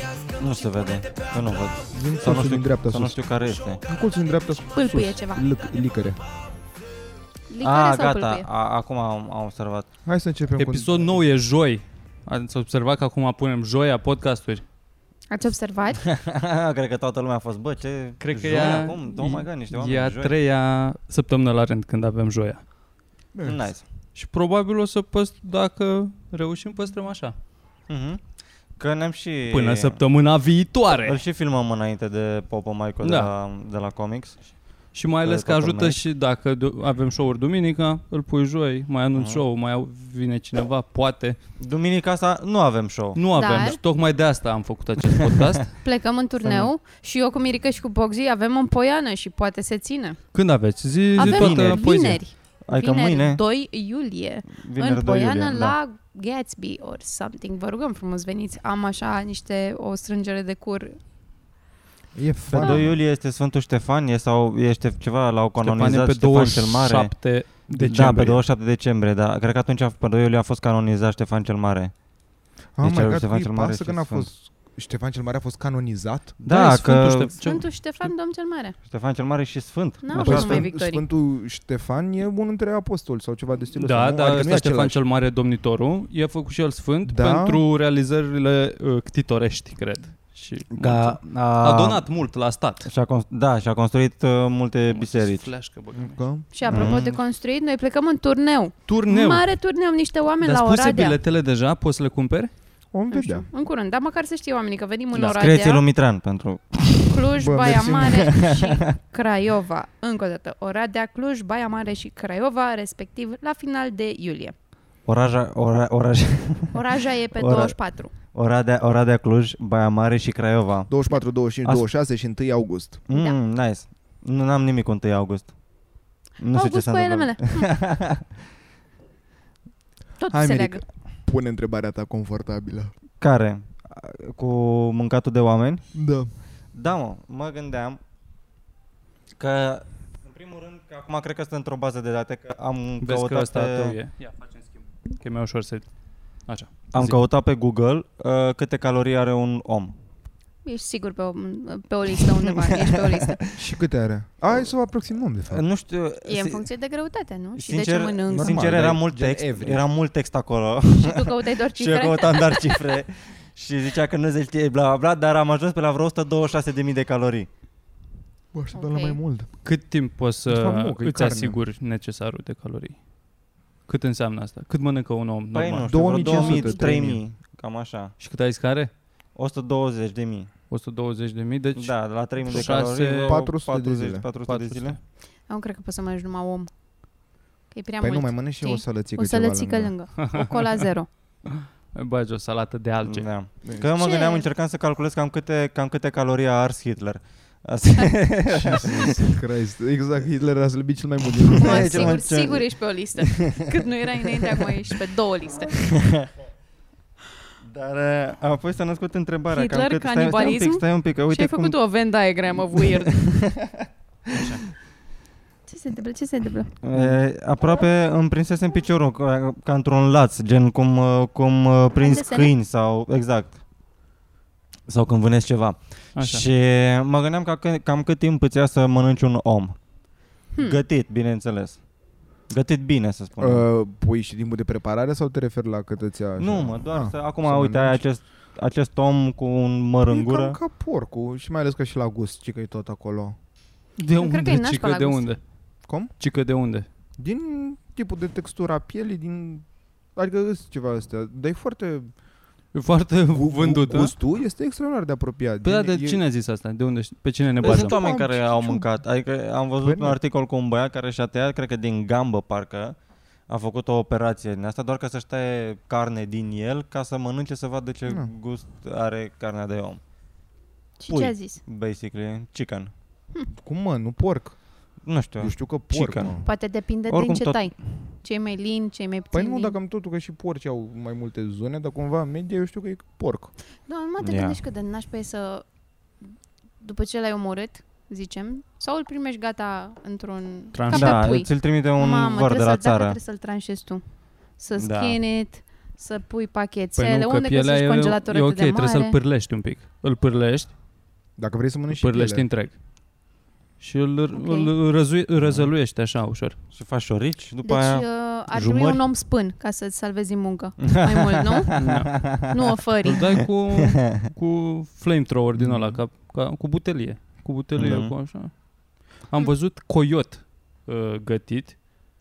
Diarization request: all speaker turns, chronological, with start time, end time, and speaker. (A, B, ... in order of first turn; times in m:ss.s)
0:00.4-0:03.8 A
0:01.9-0:03.2 B
0:03.8-0:06.2 B
0:04.7-0:05.4 C
0:07.5-0:08.5 C
0:07.6-0:09.9 A
0:10.0-0:11.2 B
0:10.6-0:14.6 D
0:15.3-0:16.0 C
0:16.0-0:20.3 A
0:18.2-0:22.6 D
0:23.3-0:23.7 B
0:23.4-0:23.8 A
0:24.2-0:27.4 D
0:27.9-0:30.0 A
0:29.5-0:31.2 D
0:31.0-0:34.6 A
0:33.0-0:33.3 D
0:34.9-0:41.4 D
0:35.2-0:36.0 A
0:39.2-0:39.4 A
0:41.6-0:43.6 A
0:43.2-0:45.7 D
0:43.3-0:43.8 C
0:45.0-0:45.5 A
0:45.8-0:50.2 C
0:50.3-0:52.2 D
0:51.2-0:52.1 A
0:51.2-1:01.0 C
0:52.7-0:53.4 A
0:54.5-0:55.8 A
1:02.2-1:03.0 B
1:02.5-1:07.2 A
1:05.6-1:08.4 D
1:07.7-1:11.9 A
1:12.8-1:16.4 B
1:12.8-1:14.3 A
1:16.4-1:18.1 D
1:16.4-1:17.3 A
1:17.4-1:18.8 C
1:18.9-1:20.7 A
1:20.0-1:21.0 C
1:20.1-1:25.0 B
1:23.8-1:32.9 D
1:27.1-1:27.6 B
1:30.8-1:32.1 A
1:32.8-1:35.5 A
1:34.9-1:37.0 D
1:35.9-1:36.9 B
1:36.5-1:41.2 C
1:36.7-1:37.1 A
1:38.9-1:39.5 D
1:40.4-1:42.5 D
1:42.9-1:43.5 B
1:43.1-1:45.8 C
1:45.1-1:45.4 D
1:45.3-1:47.3 A
1:47.1-1:54.5 C
1:47.4-1:48.4 B
1:48.0-1:48.8 A
1:55.0-1:56.8 A
1:56.7-1:58.1 C
1:57.4-2:00.9 A
2:00.9-2:03.0 B
2:03.1-2:05.5 A
2:03.1-2:03.4 C
2:06.4-2:08.2 A
2:06.5-2:07.7 C
2:10.2-2:10.8 C
2:10.3-2:12.9 B
2:13.2-2:15.9 A
2:15.9-2:16.3 B
2:16.7-2:18.0 A
2:19.4-2:24.0 A
2:23.0-2:25.9 D
2:26.4-2:27.2 D
2:26.9-2:30.0 A
2:30.6-2:33.4 C
2:32.7-2:33.5 A
2:33.6-2:35.6 B
2:35.5-2:36.7 A
2:36.2-2:38.6 C
2:37.6-2:47.5 A
2:38.3-2:39.8 B
2:40.9-2:43.0 C
2:48.5-2:49.5 B
2:48.7-2:49.2 C
2:49.6-2:53.0 D
2:50.5-2:51.6 B
2:53.9-2:56.2 D
2:55.5-2:58.2 A
2:55.9-2:57.2 B
2:56.2-2:56.8 C
2:58.2-2:58.9 D
2:59.4-3:00.5 A
3:00.7-3:03.3 D
3:01.8-3:05.0 A
3:03.2-3:04.3 B
3:04.5-3:05.0 D
3:05.5-3:06.7 C
3:07.7-3:11.1 C
3:08.0-3:09.9 B
3:10.2-3:10.7 D
3:11.6-3:13.3 D
3:13.0-3:19.4 A
3:14.0-3:14.5 C
3:18.5-3:22.2 B
3:21.5-3:23.6 A
3:21.6-3:25.8 C
3:25.7-3:26.3 A
3:27.6-3:31.8 A
3:29.5-3:33.1 C
3:32.8-3:34.6 A
3:34.3-3:34.6 D
3:35.7-3:36.7 C
3:36.8-3:43.6 A
3:42.0-3:42.5 C
3:44.9-3:49.8 A
3:46.2-3:46.4 D
3:50.5-3:50.8 C
3:50.6-3:51.8 A
3:52.5-3:53.6 A
3:53.4-3:58.1 B
3:56.4-4:00.6 A
4:00.1-4:03.4 B
4:04.0-4:05.4 D
4:04.2-4:05.3 C
4:05.9-4:06.1 B
4:06.2-4:06.9 D
4:07.2-4:12.1 B
4:12.7-4:14.1 D
4:13.3-4:16.2 B
4:15.6-4:18.0 D
4:17.6-4:30.0 A
4:17.6-4:18.9 B
4:19.8-4:20.2 B
4:28.1-4:28.3 B
4:31.0-4:31.6 C
4:31.1-4:32.9 A
4:33.6-4:34.6 B
4:35.0-4:36.5 A
4:35.4-4:36.4 B
4:36.4-4:39.8 C
4:37.1-4:37.7 A
4:39.3-4:43.5 B
4:43.9-4:45.6 C
4:44.2-4:44.6 A
4:46.8-4:54.0 C
4:50.7-4:51.4 D
4:50.9-4:53.2 A
4:54.6-4:59.2 C
4:54.8-4:55.2 A
4:57.0-5:00.7 D
5:01.4-5:02.4 B
5:01.9-5:02.8 D
5:03.8-5:06.6 D
5:04.3-5:04.7 C
5:05.4-5:05.7 A
5:06.7-5:09.0 A
5:07.6-5:11.7 C
5:10.8-5:12.5 A
5:11.8-5:12.3 D
5:12.5-5:13.3 C
5:13.1-5:21.9 D
5:13.8-5:14.2 A
5:15.6-5:16.0 B
5:17.8-5:18.1 A